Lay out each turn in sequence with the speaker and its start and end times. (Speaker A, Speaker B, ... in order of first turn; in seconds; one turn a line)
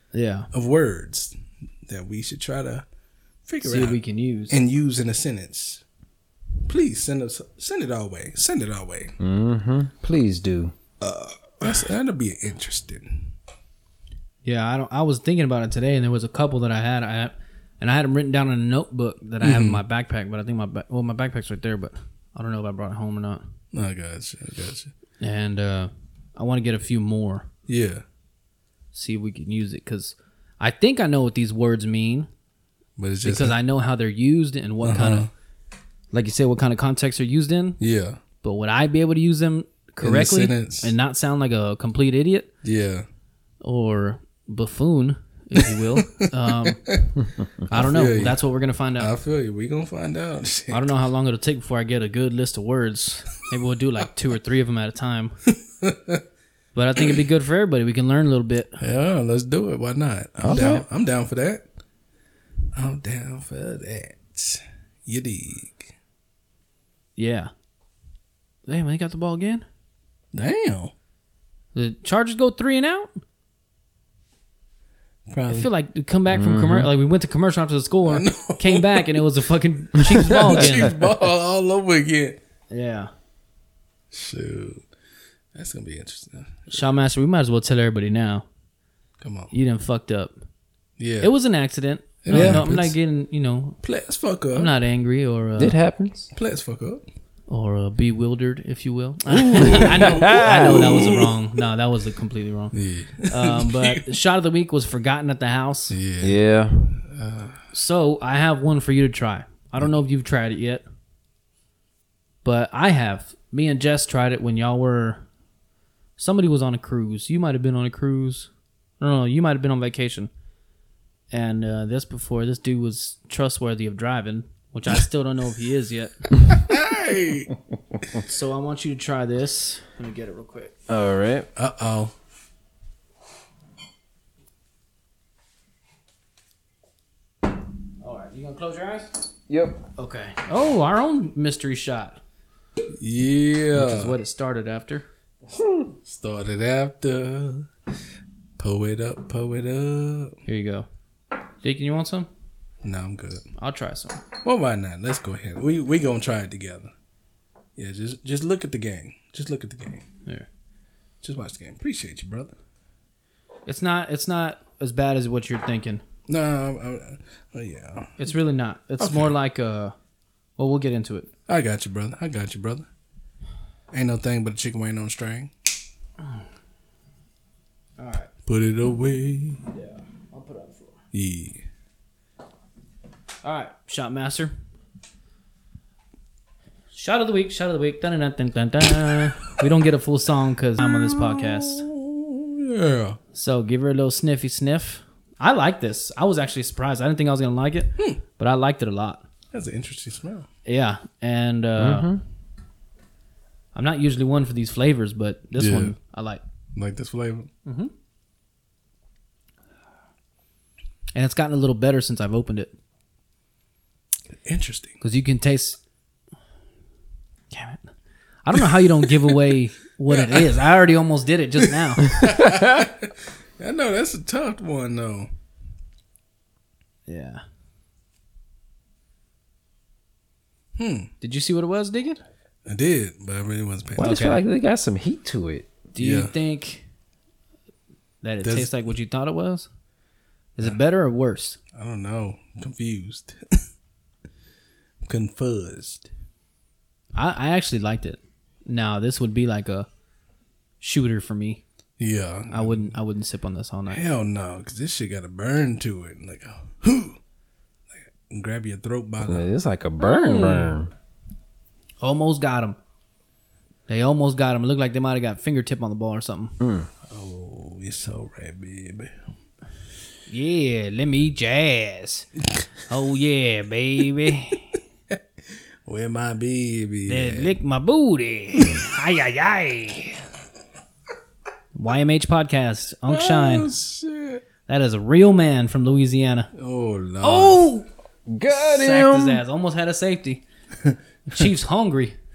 Speaker A: 0.1-0.5
Speaker B: 0.5-2.9
Speaker B: 3.5-5.8
Speaker A: 3.6-4.6
Speaker B: 6.7-9.1
Speaker C: 9.2-10.8
Speaker B: 11.0-13.3
Speaker A: 14.4-23.4
Speaker B: 19.4-19.8
Speaker B: 23.7-24.9
Speaker A: 25.2-27.5
Speaker B: 27.7-28.0
Speaker A: 28.9-32.3
Speaker B: 33.0-33.6
Speaker A: 33.2-35.3
Speaker B: 34.8-35.3
Speaker A: 36.1-37.8
Speaker B: 37.8-38.2
Speaker A: 38.4-42.5
Speaker B: 40.0-40.9
Speaker B: 42.6-43.1
Speaker A: 43.6-46.8
Speaker B: 45.6-47.1
Speaker B: 47.7-48.4
Speaker A: 47.7-49.1
Speaker B: 49.0-51.0
Speaker A: 50.7-55.4
Speaker B: 55.8-56.2
Speaker A: 56.8-58.8
Speaker B: 58.8-61.7
Speaker C: 60.4-60.8
Speaker B: 62.7-65.9
Speaker A: 67.2-67.5
Speaker A: 68.7-69.7
Speaker B: 70.3-70.9
Speaker A: 71.8-73.1
Speaker B: 75.3-75.7
Speaker A: 75.5-81.0
Speaker C: 76.3-76.9
Speaker B: 78.1-79.2
Speaker B: 80.3-82.4
Speaker A: 82.7-83.1
Speaker B: 84.1-84.9
Speaker B: 85.5-86.8
Speaker A: 86.7-88.5
Speaker B: 89.2-89.5
Speaker A: 89.5-90.4
Speaker B: 91.0-91.3
Speaker A: 91.2-93.8
Speaker B: 92.2-93.0
Speaker C: 92.3-92.7
Speaker B: 93.8-94.7
Speaker A: 94.5-95.8
Speaker C: 95.6-96.3
Speaker B: 96.3-97.0
Speaker A: 97.5-102.8
Speaker B: 99.5-101.4
Speaker C: 99.5-101.0
Speaker B: 102.7-104.0
Speaker A: 103.3-106.0
Speaker B: 105.9-106.4
Speaker C: 106.2-107.0
Speaker B: 107.0-107.6
Speaker A: 107.7-110.8
Speaker A: 112.4-115.2
Speaker A: 116.2-120.3
Speaker A: 121.3-126.3
Speaker B: 126.5-127.5
Speaker A: 128.2-130.7
Speaker C: 130.9-131.5
Speaker B: 131.6-132.1
Speaker A: 138.0-139.1
Speaker C: 139.5-139.8
Speaker A: 140.0-142.2
Speaker B: 143.0-144.2
Speaker A: 143.7-145.1
Speaker B: 146.0-147.7
Speaker B: 148.6-150.4
Speaker A: 150.5-150.9
Speaker A: 151.6-152.3
Speaker B: 152.8-153.5
Speaker A: 153.6-154.2
Speaker B: 154.4-156.9
Speaker B: 157.8-160.1
Speaker B: 161.2-162.6
Speaker A: 163.7-166.0
Speaker B: 166.3-168.2
Speaker A: 168.2-169.9
Speaker B: 169.0-169.3
Speaker A: 170.6-171.3
Speaker B: 171.5-172.9
Speaker B: 173.9-175.5
Speaker A: 178.0-178.3
Speaker B: 178.5-179.6
Speaker A: 179.7-181.0
Speaker B: 181.1-181.6
Speaker A: 183.4-184.5
Speaker A: 186.9-191.9
Speaker B: 190.8-193.2
Speaker A: 193.3-199.2
Speaker B: 199.5-200.5
Speaker A: 200.7-202.1
Speaker C: 201.8-202.2
Speaker A: 203.8-206.4
Speaker B: 205.6-205.9
Speaker B: 206.8-207.5
Speaker A: 207.7-207.9
Speaker A: 211.1-212.7
Speaker B: 214.3-215.0
Speaker A: 215.0-215.8
Speaker A: 217.5-217.9
Speaker A: 218.4-222.4
Speaker B: 218.6-219.3
Speaker B: 220.1-220.7
Speaker B: 221.6-225.3
Speaker A: 227.1-227.4
Speaker B: 230.8-231.1
Speaker A: 231.2-232.2
Speaker B: 232.7-234.3
Speaker C: 234.0-235.7
Speaker A: 234.0-234.4
Speaker A: 235.9-236.9
Speaker B: 236.0-236.3
Speaker A: 238.2-239.7
Speaker B: 238.4-238.7
Speaker A: 240.6-241.6
Speaker B: 241.7-243.6
Speaker B: 245.1-246.1
Speaker A: 247.2-249.9
Speaker A: 250.8-251.6
Speaker B: 252.0-252.9
Speaker A: 252.5-254.0
Speaker B: 253.9-257.2
Speaker B: 257.9-259.5
Speaker C: 259.2-260.9
Speaker A: 260.0-260.8
Speaker A: 262.0-262.8
Speaker A: 263.9-266.6
Speaker C: 266.6-266.9
Speaker B: 267.1-269.2
Speaker A: 270.3-272.3
Speaker A: 272.9-274.8
Speaker B: 275.9-277.6
Speaker A: 277.1-280.2
Speaker A: 281.8-283.7
Speaker B: 283.1-284.4
Speaker A: 284.7-286.5
Speaker B: 286.5-287.7
Speaker A: 287.2-287.9
Speaker C: 288.3-289.4
Speaker A: 288.5-290.4
Speaker A: 291.3-292.2